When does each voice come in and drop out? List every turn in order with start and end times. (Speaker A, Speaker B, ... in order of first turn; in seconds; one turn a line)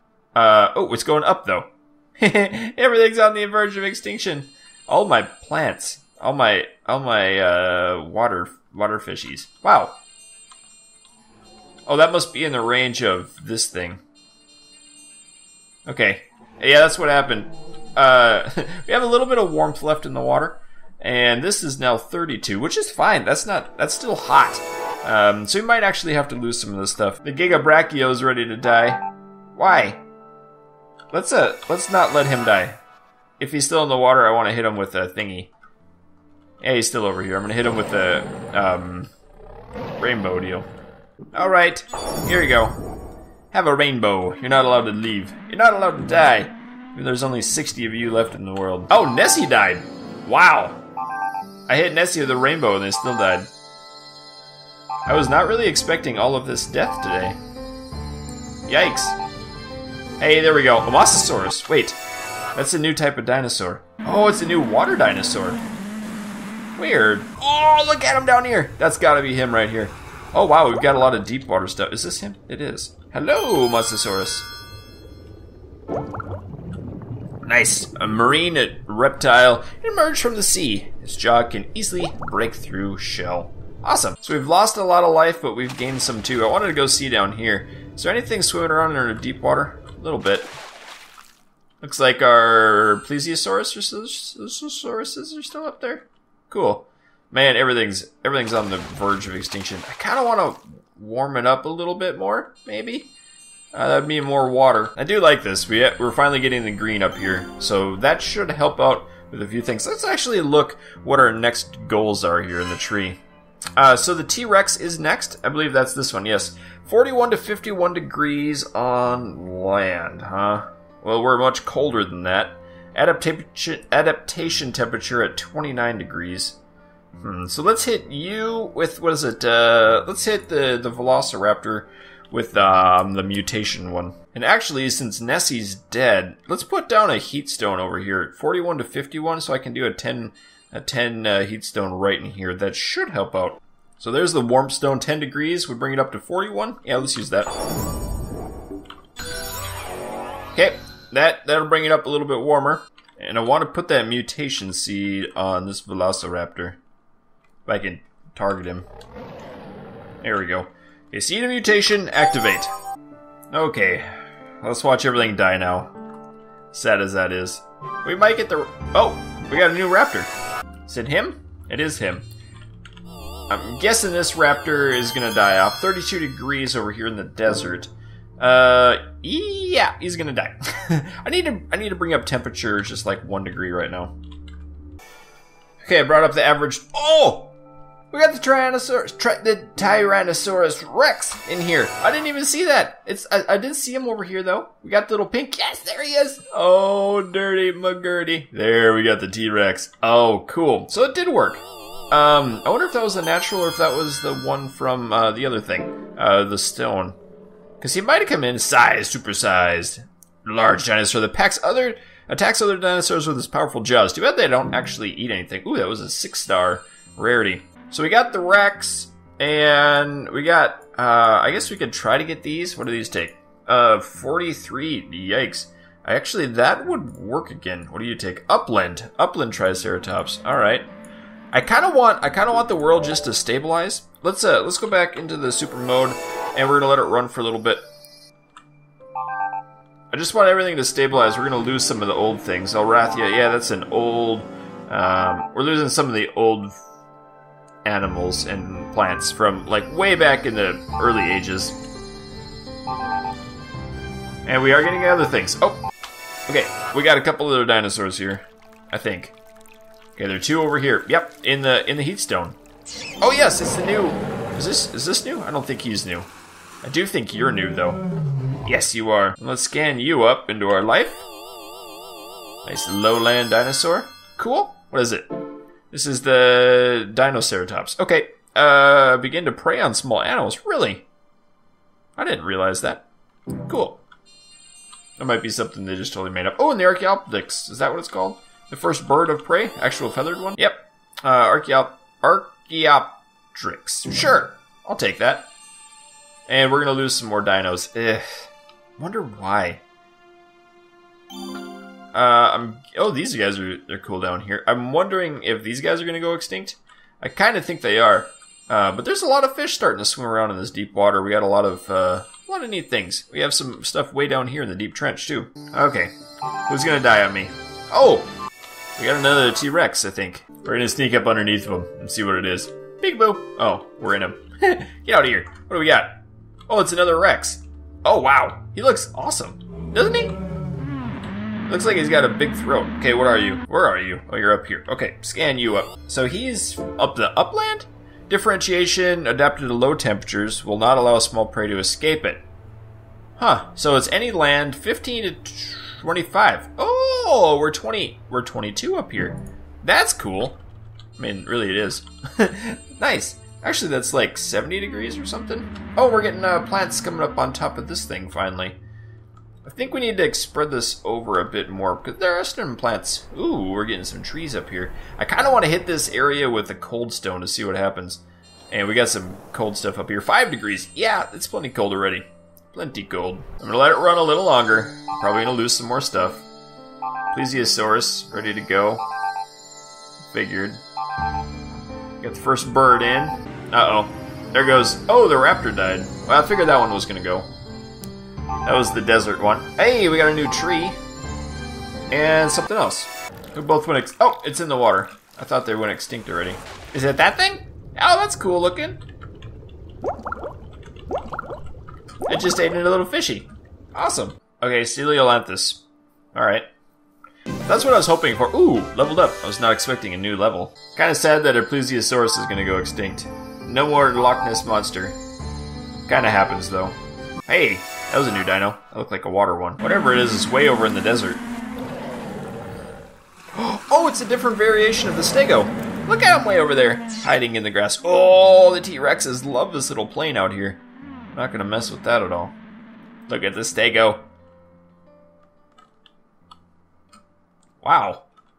Speaker A: 0.3-10.0
Speaker A: 11.9-14.0
Speaker A: 15.9-29.0
Speaker A: 29.5-30.0
Speaker A: 31.1-32.8
Speaker A: 33.4-35.5
Speaker A: 36.6-39.1
Speaker A: 40.0-40.7
Speaker A: 41.3-42.8
Speaker A: 43.5-50.8
Speaker A: 51.7-53.5
Speaker A: 55.1-57.4
Speaker A: 58.7-59.2
Speaker A: 60.2-62.0
Speaker A: 62.5-65.6
Speaker A: 66.8-74.5
Speaker A: 77.4-90.5
Speaker A: 91.8-103.1
Speaker A: 103.7-113.2
Speaker A: 113.8-126.6
Speaker A: 127.2-147.5
Speaker A: 150.5-156.8
Speaker A: 157.7-158.9
Speaker A: 160.2-162.7
Speaker A: 163.5-164.0
Speaker A: 164.6-165.9
Speaker A: 166.7-170.3
Speaker A: 170.9-172.3
Speaker A: 173.5-184.2
Speaker A: 185.8-187.5
Speaker A: 188.1-207.2
Speaker A: 207.8-230.9
Speaker A: 231.5-237.8
Speaker A: 240.1-246.8
Speaker A: 247.8-251.8
Speaker A: 254.5-255.8
Speaker A: 256.5-259.4
Speaker A: 260.2-262.6
Speaker A: 263.2-266.3
Speaker A: 266.8-268.0
Speaker A: 268.6-271.3
Speaker A: 272.6-275.3
Speaker A: 275.9-281.1
Speaker A: 282.2-283.1
Speaker A: 283.6-284.0
Speaker A: 285.2-295.5
Speaker A: 296.5-299.8
Speaker A: 302.1-316.1
Speaker A: 316.7-318.3
Speaker A: 319.0-326.1
Speaker A: 326.7-330.4
Speaker A: 331.7-342.4
Speaker A: 343.4-350.6
Speaker A: 351.2-358.8
Speaker A: 359.6-376.4
Speaker A: 377.3-379.0
Speaker A: 380.3-380.8
Speaker A: 382.2-387.5
Speaker A: 388.6-391.0
Speaker A: 392.1-399.0
Speaker A: 402.3-406.7
Speaker A: 407.7-415.2
Speaker A: 416.1-417.0
Speaker A: 417.5-421.4
Speaker A: 423.5-430.8
Speaker A: 431.3-432.6
Speaker A: 433.3-434.2
Speaker A: 437.8-438.3